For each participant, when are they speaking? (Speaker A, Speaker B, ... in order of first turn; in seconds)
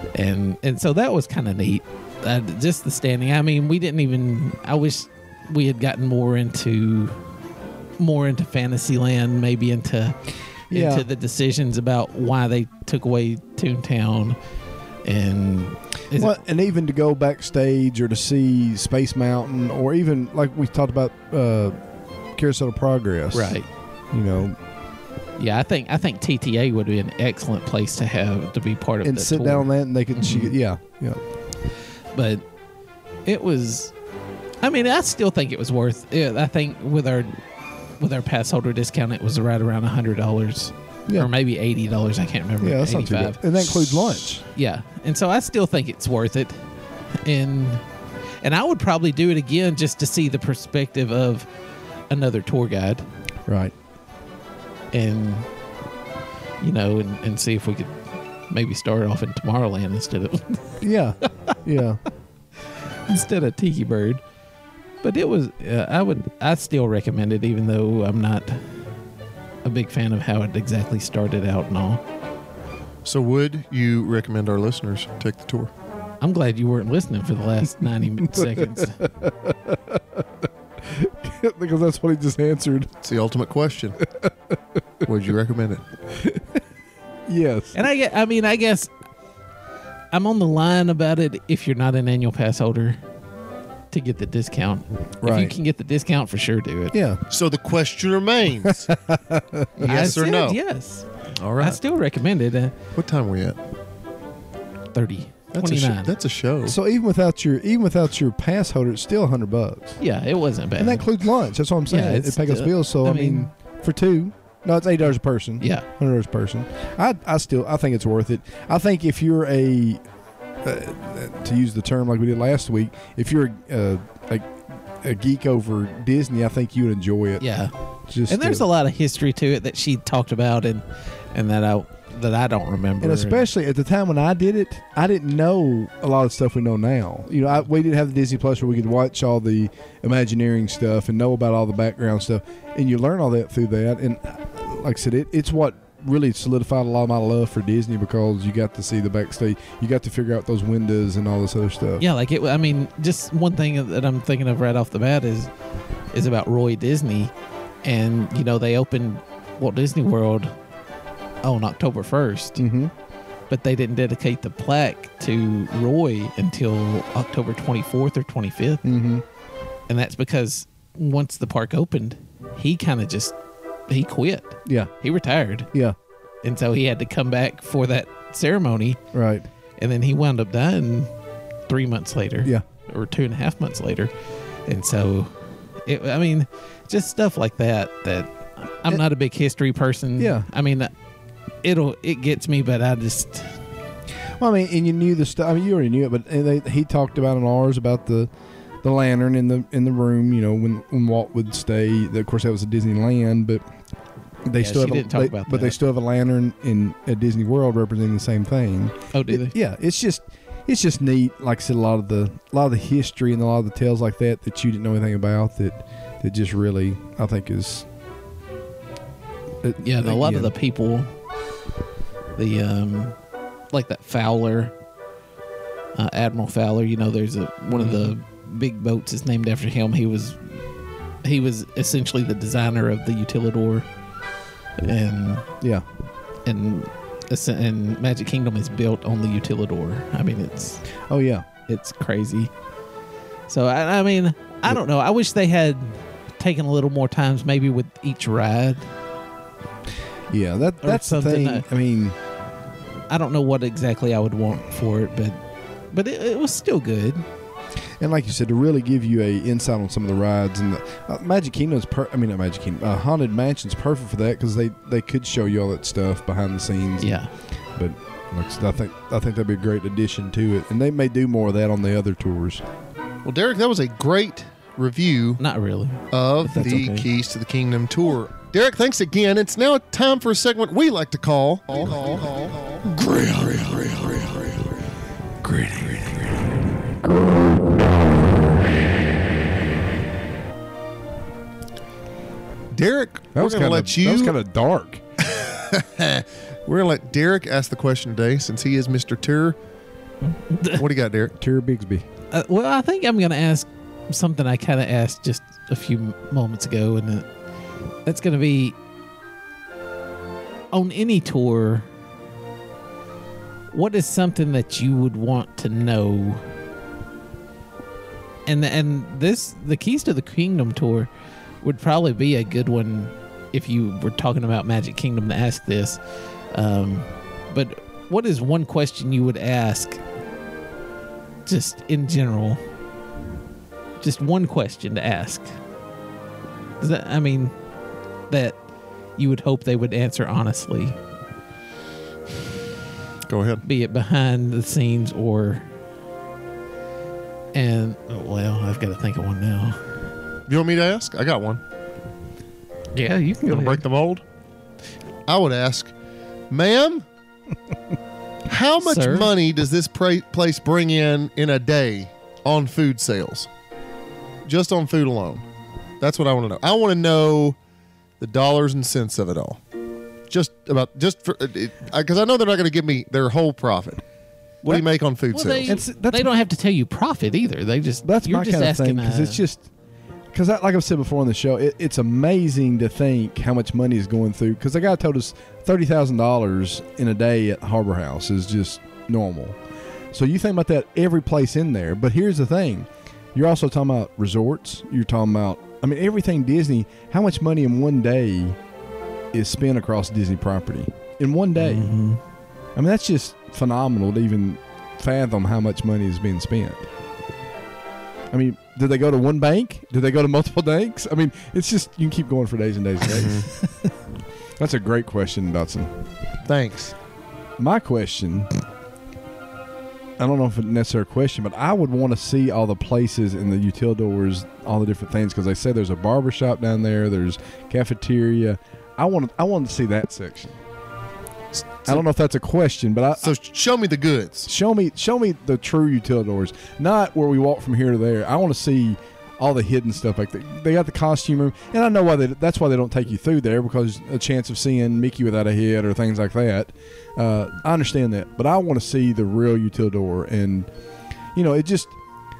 Speaker A: 0.1-7.2, 8.0-10.2, 10.7-14.4, 15.0-16.4, 23.3-23.7, 25.4-30.5, 32.1-32.4, 33.2-33.9, 34.6-37.4, 38.0-46.7, 47.2-47.8, 48.4-51.5, 52.1-53.0, 54.9-55.5, 56.6-57.9, 58.5-60.8, 63.1-64.2, 65.0-68.8, 69.6-72.0, 76.2-79.0, 87.7-88.9, 90.1-93.0, 93.9-97.0, 99.8-102.7, 104.9-106.1, 110.0-111.1, 111.9-113.5, 115.6-115.8, 127.4-127.7, 128.3-133.4, 152.0-155.5, 156.1-157.3, 157.8-160.5, 161.4-162.6, 163.5-168.8, 169.9-173.3, 173.9-175.7, 176.4-179.0, 179.8-181.1, 181.7-184.1, 184.7-190.9, 191.6-193.6, 204.6-205.8, 209.1-209.5, 219.8-221.1, 222.3-223.2, 223.7-224.7, 225.9-230.5, 231.2-233.9, 234.8-235.5, 236.4-240.8, 241.7-242.5, 243.5-248.9, 250.8-251.7, 253.1-257.2, 267.0-267.3, 275.4-277.1, 300.3-300.8, 302.3-307.3, 308.0-308.8, 310.7-311.9, 313.7-316.5, 318.4-321.1, 321.6-330.0, 331.4-332.6, 334.0-335.5, 336.8-337.6, 338.3-338.6, 339.1-341.0, 343.6-345.7, 347.5-349.8, 352.9-353.8, 358.8-359.3, 375.3-379.4, 401.6-402.2
Speaker B: 10.7-11.1, 16.1-21.7, 22.3-23.6, 24.1-24.6, 29.0-31.2, 42.6-44.4, 53.5-53.7, 60.8-62.0, 78.0-80.3, 80.8-82.9, 84.1-84.5, 86.1-86.6, 87.3-87.8, 95.2-95.5, 96.9-97.2, 98.6-100.1, 106.6-110.0, 110.8-120.0, 120.6-127.4, 128.1-128.6, 133.0-152.0, 162.6-162.9, 168.8-169.2, 174.7-174.9, 179.1-179.5, 190.2-190.5, 194.4-198.3, 198.8-203.6, 204.5-217.8, 219.6-220.5, 241.0-241.4, 250.3-252.2, 258.0-267.2, 267.7-272.6, 285.4-286.5, 293.3-295.0, 301.4-302.1, 375.6-376.3, 378.0-379.7, 380.3-389.6, 390.1-398.6, 399.3-401.9, 402.8-406.8, 408.3-413.5, 414.6-415.9, 417.6-418.5, 420.2-430.5, 431.9-433.3, 434.5-450.7, 451.3-451.9
Speaker C: 73.0-75.7, 83.0-84.0, 85.0-85.8, 97.3-98.9, 99.8-100.6, 101.4-101.8, 103.0-103.6, 105.5-106.8, 273.2-275.4, 276.1-284.6, 292.7-294.3, 295.2-299.6, 300.7-301.3, 343.2-343.6, 350.5-351.6, 353.5-354.2, 355.3-355.9, 356.5-357.0, 358.5-363.5, 364.4-365.4, 366.0-367.6, 368.2-369.6, 370.3-374.0, 374.6-375.8, 413.1-413.5, 416.4-416.9, 431.6-432.0, 433.2-434.5